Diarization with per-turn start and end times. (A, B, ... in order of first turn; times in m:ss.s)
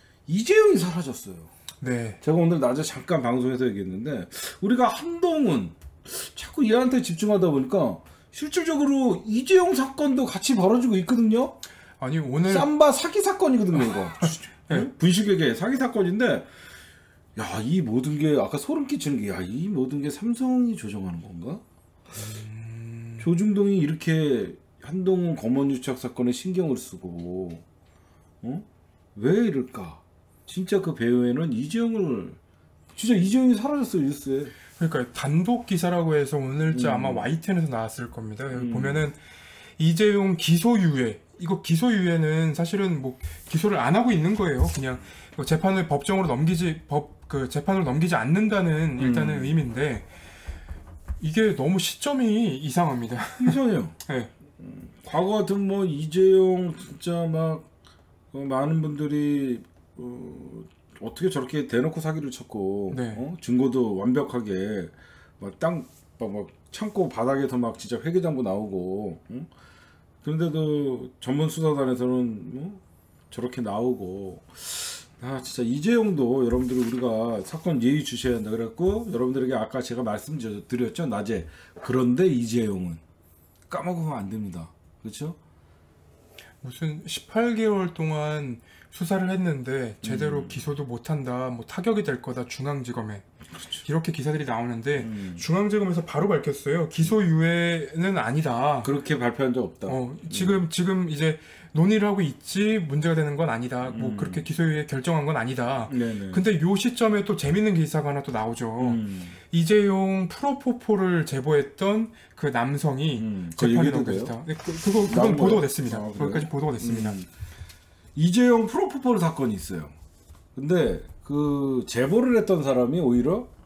0:00.3-0:01.5 A
0:01.8-0:02.2 B
0:02.2-0:11.6 A
0:12.0-0:12.7 B
0:12.4-0:16.5 A
0:13.8-0:14.9 B
0:17.4-0:21.6 A
0:22.2-0:23.3 B
0:23.2-0:27.6 A
0:28.4-0:32.4 A
0:32.9-0:34.5 A
0:34.8-0:39.2 B
0:36.7-0:37.3 A
0:38.5-0:39.0 A
0:39.8-0:50.1 B
0:49.0-0:49.6 A
0:51.2-0:54.3 B
0:53.4-0:54.0 A
0:54.6-0:57.7 A
0:58.3-1:09.5 A
1:02.9-1:03.2 B
1:10.2-1:23.0 A
1:23.7-1:25.4 A
1:26.6-1:33.2 B
1:30.0-1:30.6 A
1:33.5-1:33.8 A
1:33.8-1:38.9 B
1:35.0-1:35.4 A
1:38.8-1:40.6 A
1:39.9-1:57.2 B
1:43.9-1:44.4 A
1:45.9-1:46.4 A
1:48.8-1:49.4 A
1:53.2-1:54.4 A
1:55.1-1:57.3 A
1:58.2-1:59.9 A
2:00.6-2:03.5 A